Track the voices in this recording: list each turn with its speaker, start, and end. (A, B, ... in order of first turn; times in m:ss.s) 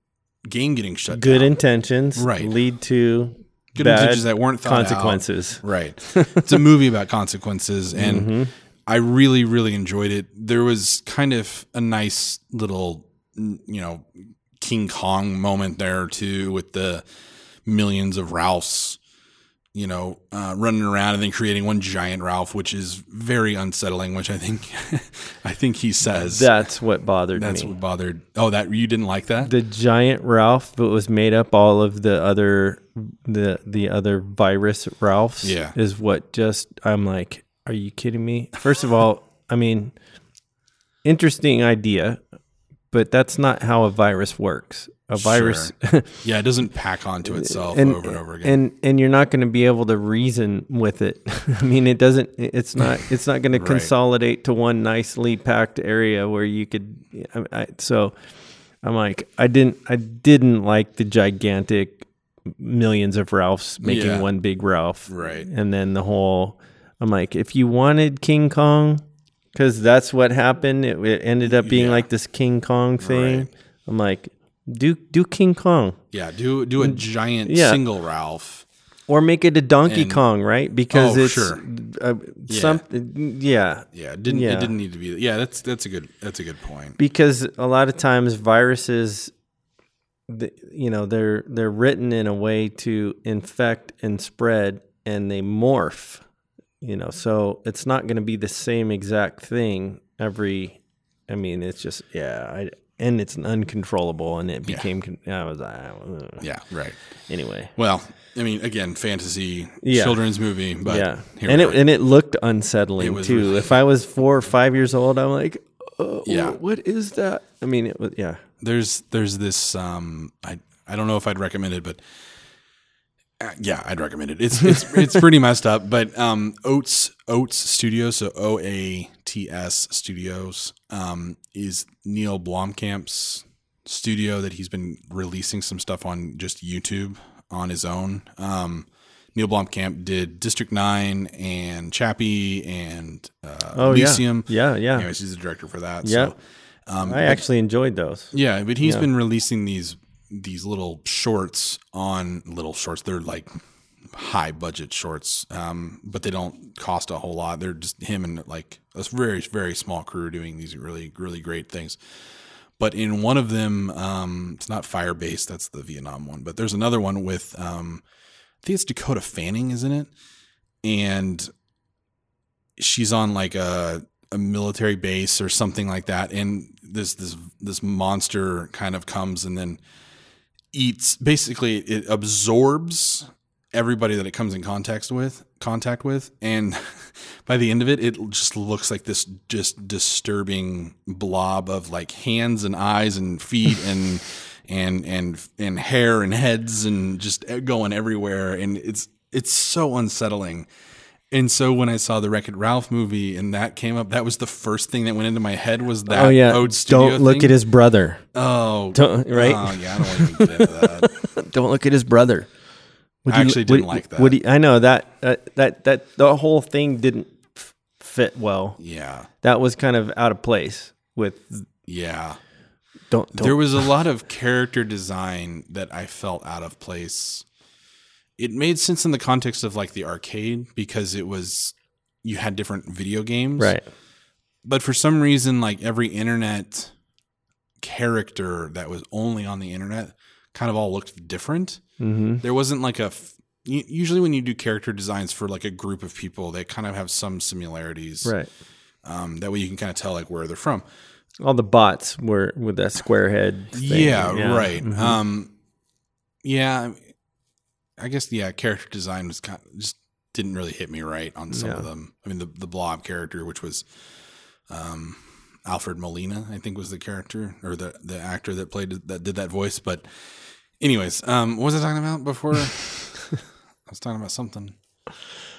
0:00.4-0:01.5 A
0:01.1-0:06.6 B
0:02.2-0:02.6 A
0:03.7-0:08.4 A
0:07.9-0:08.5 B
0:08.9-0:17.0 A
0:17.6-0:19.0 A
0:19.7-0:26.6 A
0:26.1-0:27.7 B
0:27.4-0:29.5 A
0:29.4-0:39.9 B
0:35.4-0:35.7 A
0:41.0-0:42.2 B
0:42.9-0:46.2 B
0:45.2-0:48.6 A
0:47.2-0:58.2 B
0:53.5-0:53.9 A
0:58.8-1:16.0 B
1:03.8-1:04.3 A
1:05.1-1:05.5 A
1:11.4-1:12.1 A
1:13.0-1:13.5 A
1:16.1-1:18.7 A
1:16.8-1:17.8 B
1:19.1-1:24.7 B
1:19.9-1:20.2 A
1:20.9-1:21.6 A
1:22.5-1:22.8 A
1:23.9-1:27.0 A
1:27.0-1:29.3 B
1:30.3-1:36.2 B
1:36.8-1:46.4 B
1:46.4-1:47.2 A
1:47.3-1:47.7 B
1:47.7-1:51.8 A
1:49.8-1:50.2 B
1:50.8-1:58.4 B
1:53.0-1:53.7 A
1:56.3-1:56.6 A
1:58.6-2:02.0 A
2:03.4-2:27.4 A
2:23.7-2:25.1 B
2:26.0-2:26.3 B
2:27.0-2:29.0 B
2:28.3-2:33.5 A
2:34.1-2:42.0 A
2:42.8-2:48.0 A
2:48.6-2:50.1 A
2:50.8-2:51.5 A
2:52.8-2:59.8 A
3:00.7-3:20.7 A
3:21.3-3:27.6 A
3:26.1-3:28.2 B
3:28.3-3:31.2 A
3:28.9-3:32.5 B
3:33.2-3:38.8 B
3:33.3-3:34.4 A
3:38.8-3:39.3 A
3:39.4-3:41.7 B
3:41.9-3:42.4 A
3:43.1-3:43.9 B
3:43.4-3:47.4 A
3:48.4-3:53.8 A
3:53.6-3:53.8 B
3:54.6-3:56.9 A
3:57.8-4:01.8 A
4:02.0-4:02.4 B
4:02.4-4:08.4 A
4:09.0-4:10.9 A
4:11.4-4:15.2 B
4:13.7-4:15.5 A
4:16.4-4:17.1 A
4:18.0-4:23.9 A
4:21.5-4:21.9 B
4:24.7-4:34.7 A